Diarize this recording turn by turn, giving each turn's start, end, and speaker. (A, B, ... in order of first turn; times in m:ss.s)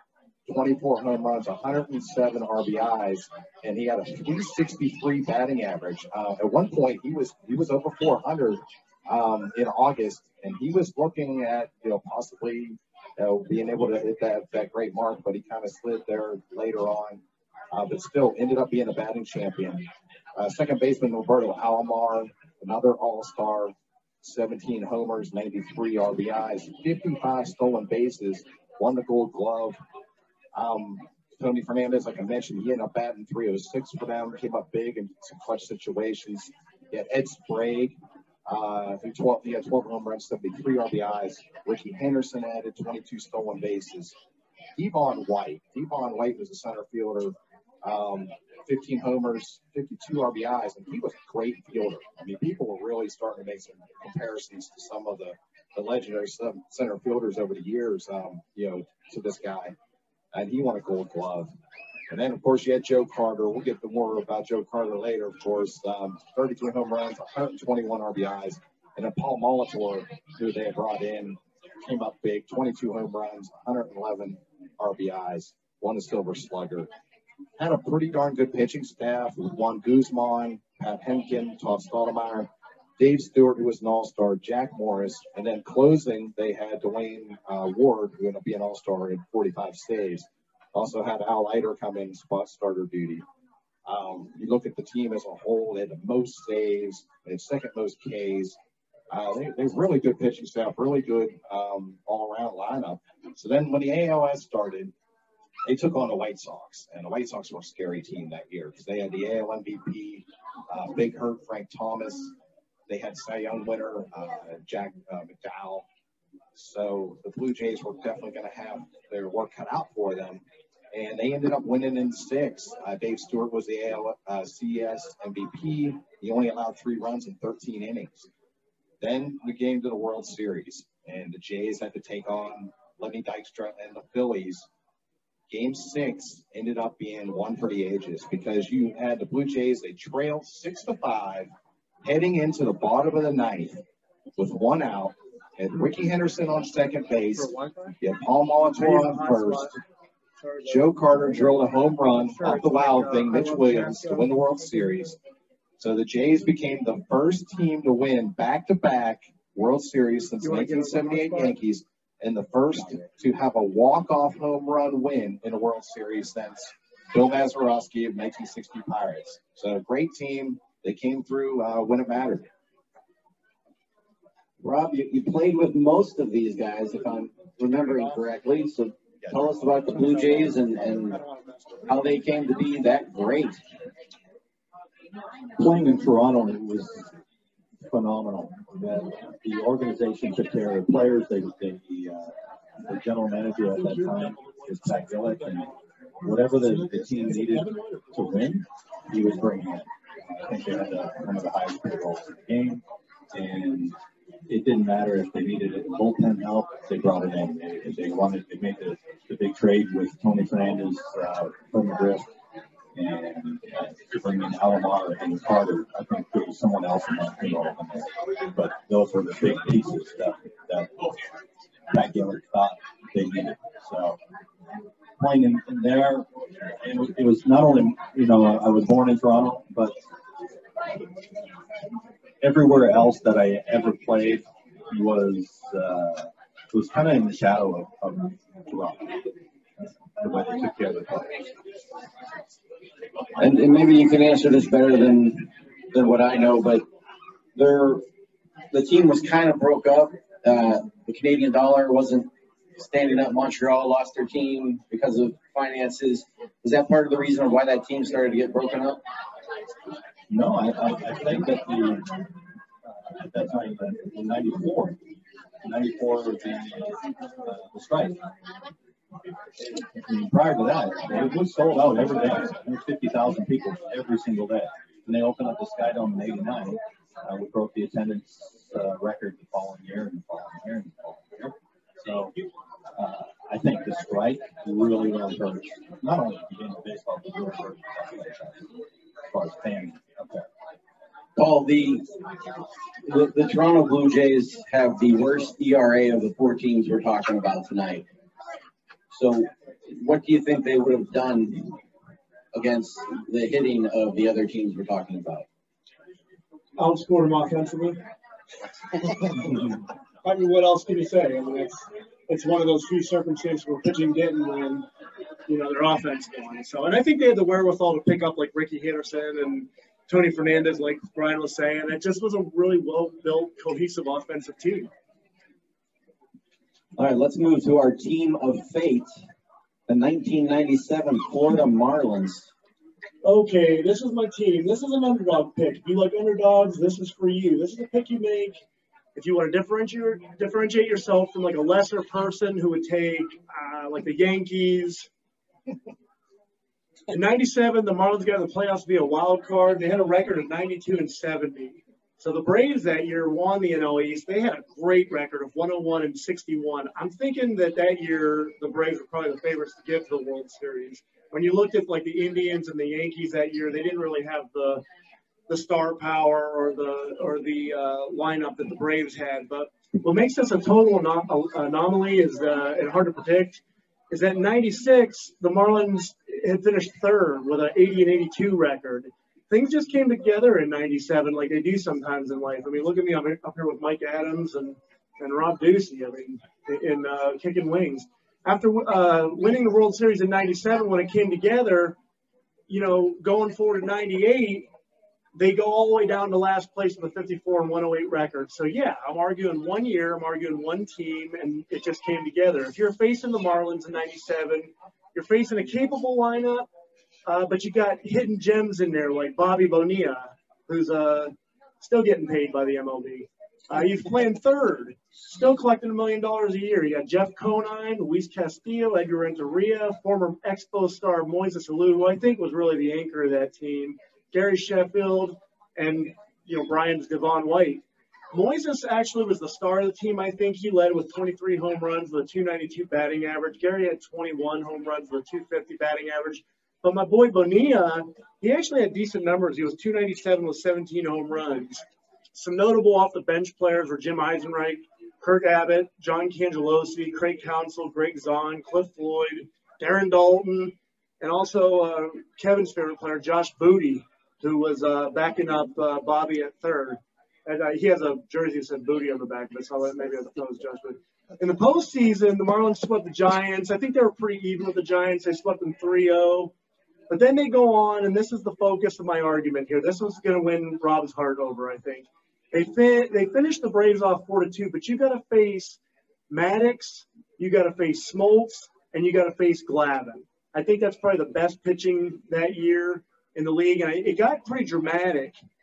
0:00.5-0:29.8 A
0:30.5-0:44.2 A
0:44.8-0:59.8 A
1:00.3-1:01.5 A
1:02.1-1:16.9 A
1:17.6-1:33.2 A
1:33.9-1:38.6 A
1:39.1-1:44.9 A
1:45.7-1:52.3 A
1:52.9-1:55.8 A
1:56.6-2:08.3 A
2:09.0-2:14.7 A
2:15.5-2:21.5 A
2:22.0-2:23.8 A
2:24.4-2:29.8 A
2:27.3-2:28.0 B
2:28.8-2:29.8 B
2:30.4-2:31.6 B
2:30.6-2:35.2 A
2:32.3-2:34.4 B
2:35.8-2:52.5 A
2:40.4-2:41.6 B
2:54.6-3:01.2 C
2:59.9-3:01.9 B
3:01.9-3:03.6 C
3:05.6-3:07.1 D
3:07.8-3:12.3 D
3:12.8-3:15.7 D
3:14.0-3:14.3 B
3:16.2-3:19.9 D
3:16.6-3:18.1 B
3:20.4-3:24.0 D
3:24.5-3:32.3 D
3:33.0-3:41.1 D
3:41.9-3:44.2 D
3:45.2-3:46.3 D
3:46.8-3:50.0 D
3:52.4-3:59.2 D
4:00.2-4:01.5 D
4:03.4-4:06.8 C
4:07.6-4:08.0 C
4:08.7-4:19.0 C
4:20.3-4:22.3 D
4:23.1-4:25.0 D
4:25.6-4:28.2 D
4:29.6-4:42.3 D
4:43.0-4:48.6 D
4:49.3-4:50.5 D
4:51.4-4:52.1 C
4:53.0-4:58.1 C
4:59.1-5:01.8 C
5:02.5-5:05.5 C
5:06.8-5:08.0 B
5:09.1-5:14.9 B
5:15.5-5:24.9 B
5:27.0-5:29.2 C
5:29.9-5:32.5 C
5:33.2-5:38.6 B
5:39.2-5:45.1 B
5:47.1-6:04.8 B
6:05.5-6:32.0 B
6:32.7-6:34.7 B
6:35.4-6:46.7 B
6:47.3-7:46.5 B
7:47.1-8:05.4 B